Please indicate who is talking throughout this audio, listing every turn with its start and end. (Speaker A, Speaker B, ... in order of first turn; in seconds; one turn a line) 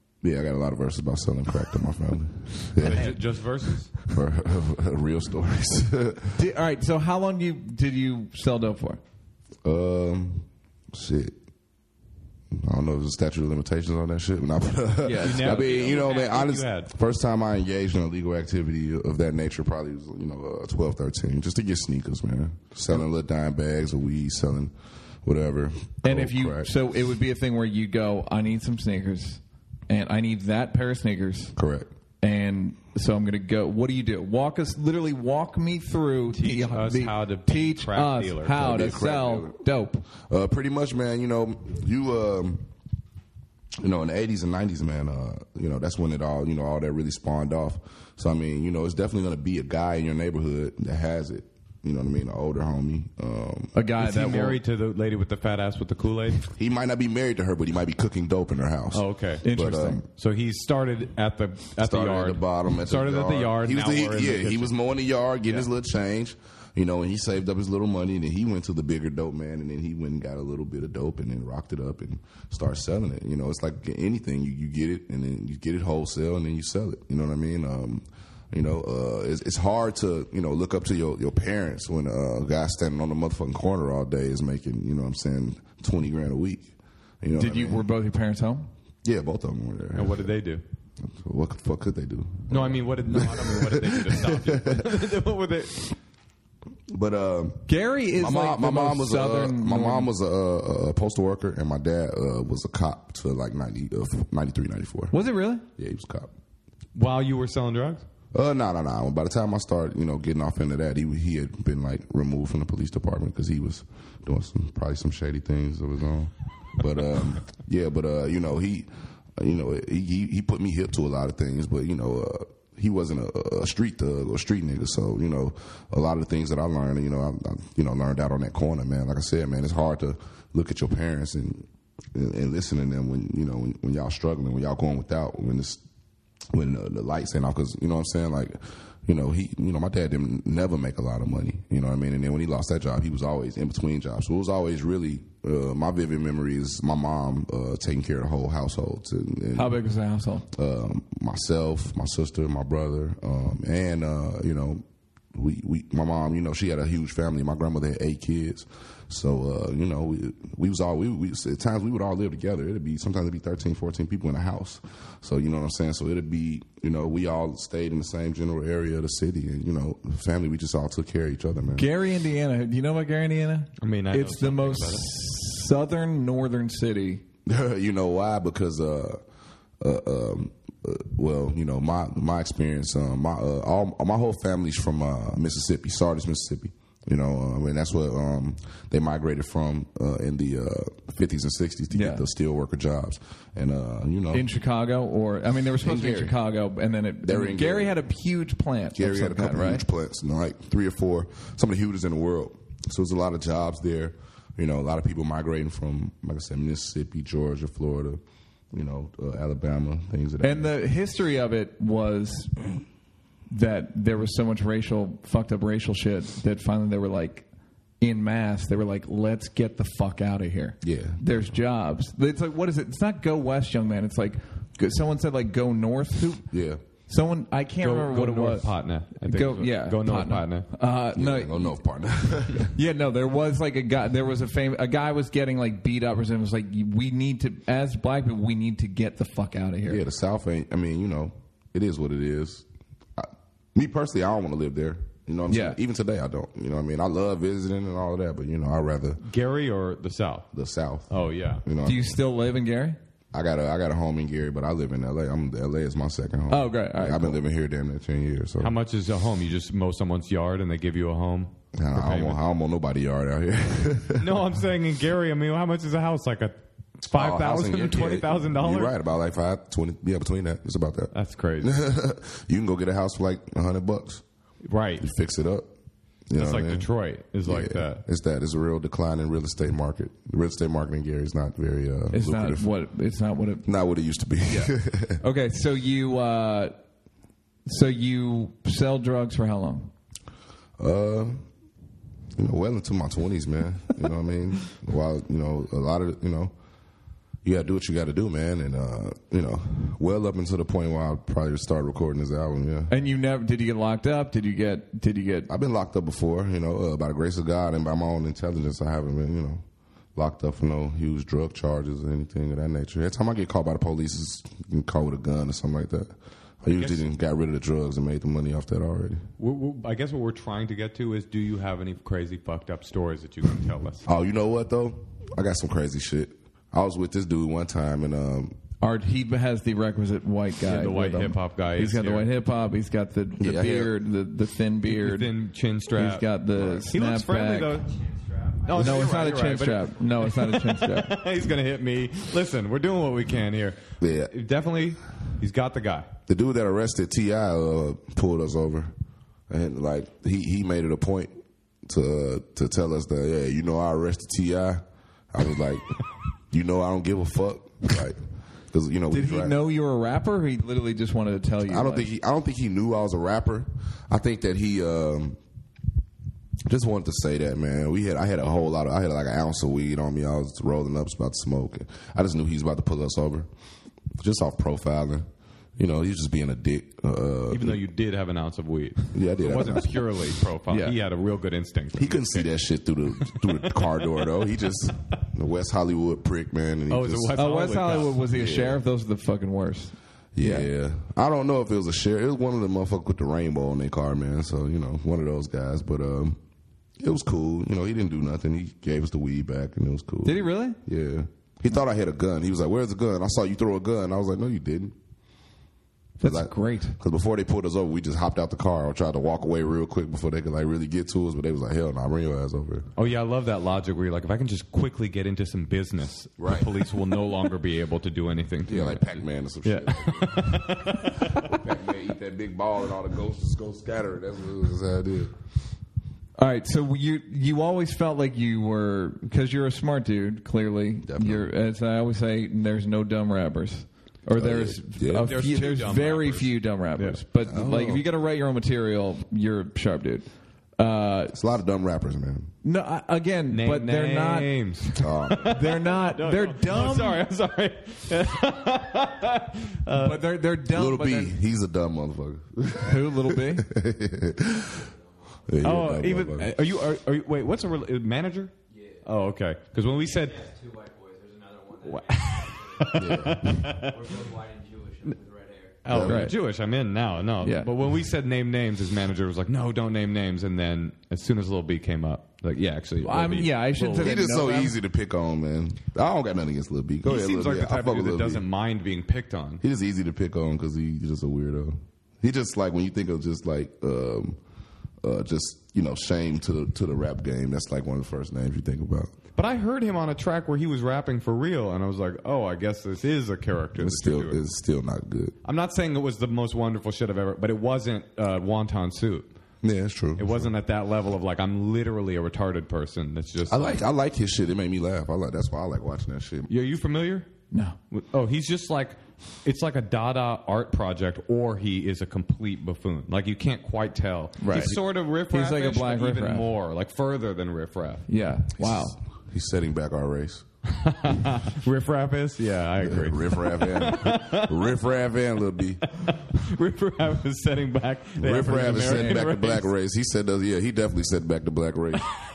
Speaker A: 0.2-3.2
Speaker B: 2.8-3.9
Speaker A: 4.1-6.4
Speaker C: 6.3-9.0
Speaker A: 9.6-11.4
Speaker A: 12.5-26.7
Speaker C: 15.0-15.6
Speaker B: 15.0-16.9
Speaker C: 26.0-31.5
Speaker A: 31.5-31.9
Speaker C: 32.2-40.0
Speaker B: 36.3-38.5
Speaker A: 38.5-39.6
Speaker A: 40.1-42.7
Speaker A: 43.8-53.7
Speaker C: 53.7-54.6
Speaker B: 54.0-56.5
Speaker A: 56.4-60.0
Speaker B: 58.9-59.4
Speaker C: 59.4-60.0
Speaker B: 60.1-64.7
Speaker A: 61.8-87.9
Speaker C: 87.3-88.7
Speaker A: 89.0-90.3
Speaker B: 89.9-90.6
Speaker A: 91.0-95.2
Speaker B: 92.5-96.0
Speaker A: 96.9-105.1
Speaker C: 97.7-100.1
Speaker C: 105.1-105.6
Speaker A: 105.8-106.3
Speaker B: 106.9-108.0
Speaker A: 108.3-135.8
Speaker A: 136.5-149.8
Speaker C: 149.5-150.5
Speaker A: 150.5-171.9
Speaker C: 171.7-177.2
Speaker B: 173.8-175.1
Speaker A: 177.4-179.2
Speaker A: 179.8-194.5
Speaker C: 191.9-192.2
Speaker C: 194.3-199.8
Speaker A: 195.8-196.4
Speaker A: 197.2-197.9
Speaker A: 198.9-208.2
Speaker A: 208.7-210.8
Speaker C: 210.4-212.7
Speaker C: 213.5-217.4
Speaker C: 218.0-226.5
Speaker A: 220.8-221.5
Speaker A: 226.5-226.8
Speaker C: 227.1-231.8
Speaker B: 227.8-230.7
Speaker A: 231.1-232.7
Speaker C: 232.6-240.0
Speaker A: 239.8-249.2
Speaker C: 245.5-245.8
Speaker B: 249.2-250.5
Speaker A: 250.5-252.2
Speaker B: 251.1-251.6
Speaker C: 251.8-253.0
Speaker A: 253.3-258.7
Speaker C: 256.5-257.4
Speaker B: 258.6-262.4
Speaker A: 261.7-264.4
Speaker B: 264.2-268.9
Speaker A: 267.1-274.2
Speaker B: 271.1-271.8
Speaker B: 274.6-275.0
Speaker A: 275.0-275.7
Speaker A: 276.3-276.9
Speaker B: 276.4-278.0
Speaker A: 277.4-282.7
Speaker C: 282.1-283.6
Speaker A: 283.6-285.2
Speaker C: 284.5-286.8
Speaker C: 287.6-289.9
Speaker A: 290.8-291.4
Speaker A: 292.4-296.5
Speaker A: 297.4-302.9
Speaker C: 302.9-305.5
Speaker A: 305.5-309.6
Speaker A: 310.1-319.3
Speaker B: 316.8-317.0
Speaker B: 319.4-324.1
Speaker A: 324.0-328.6
Speaker C: 328.8-335.3
Speaker B: 330.6-332.3
Speaker A: 333.4-333.9
Speaker B: 334.9-336.3
Speaker C: 335.9-337.8
Speaker A: 336.6-336.8
Speaker B: 336.9-337.9
Speaker D: 337.8-339.3
Speaker B: 338.6-343.8
Speaker C: 338.7-341.2
Speaker A: 344.0-344.3
Speaker B: 344.3-346.1
Speaker A: 346.3-348.9
Speaker A: 349.5-359.6
Speaker C: 359.1-362.1
Speaker A: 361.6-365.4
Speaker A: 366.6-373.5
Speaker A: 374.2-377.8
Speaker B: 377.5-382.5
Speaker A: 379.1-380.2
Speaker C: 380.7-380.9
Speaker A: 381.9-387.3
Speaker B: 383.2-384.1
Speaker B: 386.9-388.2
Speaker C: 387.4-390.7
Speaker A: 388.3-388.8
Speaker A: 390.4-396.4
Speaker A: 397.0-404.9
Speaker C: 400.2-400.8
Speaker C: 406.2-407.0
Speaker A: 406.2-412.9
Speaker B: 412.9-421.5
Speaker A: 416.4-416.9
Speaker A: 418.6-425.3
Speaker C: 426.4-441.4
Speaker A: 431.0-431.5
Speaker A: 434.4-435.3
Speaker B: 435.2-437.2
Speaker A: 437.4-438.1
Speaker A: 441.3-442.5
Speaker C: 442.6-444.5
Speaker B: 443.5-450.3
Speaker A: 445.0-445.6
Speaker C: 445.4-447.2
Speaker C: 449.9-451.3
Speaker A: 450.7-454.9
Speaker C: 452.8-453.7
Speaker D: 454.6-455.4
Speaker A: 455.5-456.5
Speaker B: 455.6-460.4
Speaker D: 458.7-459.1
Speaker D: 460.0-465.8
Speaker B: 461.8-464.2
Speaker A: 462.9-463.5
Speaker B: 465.8-474.2
Speaker A: 465.9-466.3
Speaker C: 466.0-466.4
Speaker C: 467.4-467.7
Speaker C: 473.0-474.8
Speaker A: 474.0-478.4
Speaker B: 477.0-479.6
Speaker A: 479.6-484.4
Speaker A: 485.0-489.1
Speaker B: 489.4-494.4
Speaker A: 493.8-495.3
Speaker B: 495.4-499.3
Speaker A: 499.6-500.5
Speaker B: 500.2-503.8
Speaker A: 503.5-506.5
Speaker B: 506.5-507.3
Speaker C: 507.5-507.8
Speaker B: 507.9-518.0
Speaker C: 514.4-516.5
Speaker C: 518.1-519.0
Speaker A: 518.6-520.5
Speaker B: 520.7-524.8
Speaker A: 522.8-525.8
Speaker B: 525.9-529.7
Speaker A: 528.2-532.1
Speaker C: 528.5-529.2